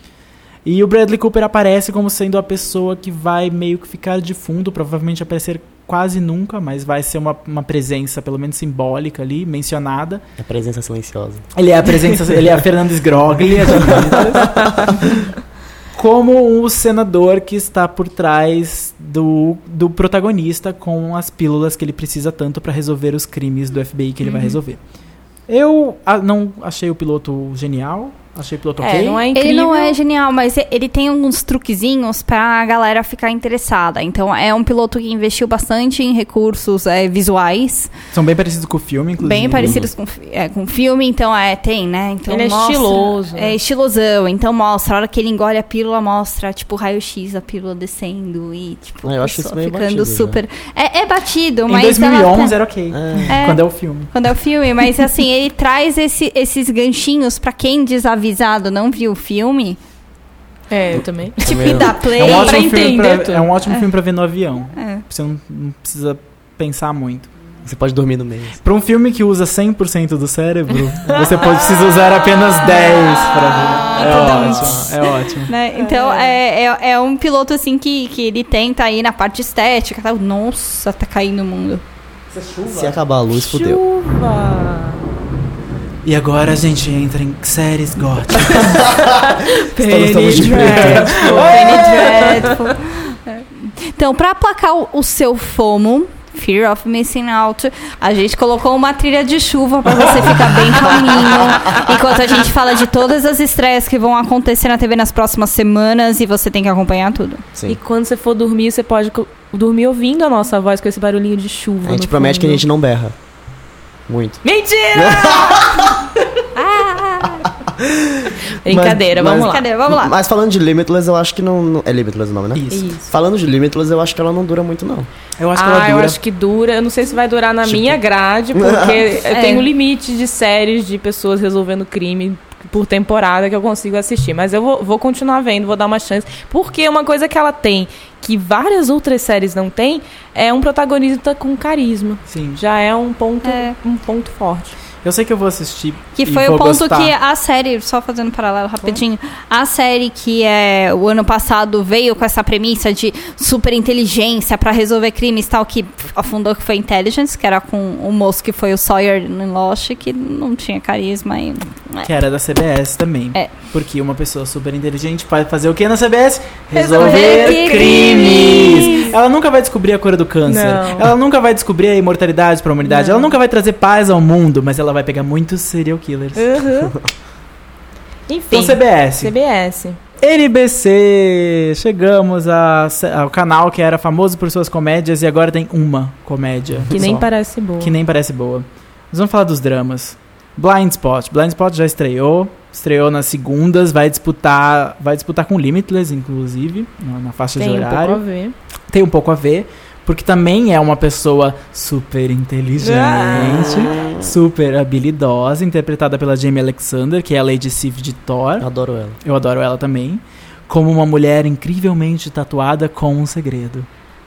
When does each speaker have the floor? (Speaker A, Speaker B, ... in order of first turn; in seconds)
Speaker A: 0.6-10.2, 11.5-15.2, 15.9-24.8, 25.5-29.2, 38.1-39.9, 51.7-54.1, 62.1-67.3, 68.6-75.5, 82.3-83.0, 86.0-89.1, 89.8-92.4, 122.5-122.9, 125.4-126.2, 142.3-142.6, 145.0-147.1, 162.0-176.6, 178.5-179.3, 180.2-198.2, 198.9-208.7, 209.2-213.9
Speaker B: 10.4-11.4, 13.8-14.9, 39.5-39.9, 49.0-50.4, 52.9-53.4, 61.4-61.9, 67.6-68.6, 73.9-74.8, 82.6-83.8, 88.4-91.3, 111.8-113.1, 114.1-114.4, 114.9-116.0, 117.3-125.1, 128.5-129.1, 203.3-204.3, 208.6-209.2
Speaker C: 24.2-24.6, 28.8-30.0, 42.3-43.5, 60.7-63.5, 71.0-72.1, 75.7-76.4, 83.3-85.0, 88.5-92.7, 107.7-112.6, 114.4-116.2, 118.6-119.7, 122.7-123.1, 125.5-144.8, 166.7-169.0, 170.5-171.1, 172.8-173.3, 176.3-176.9, 178.3-180.0, 186.9-187.9, 197.6-198.5, 202.8-203.8
Speaker D: 29.3-37.9, 39.2-52.5, 53.3-59.8, 61.4-62.7, 64.7-65.0, 72.7-81.8, 91.3-107.4, 116.5-117.5, 119.2-120.1, 129.3-129.7, 143.4-143.7, 146.2-162.1, 166.9-169.1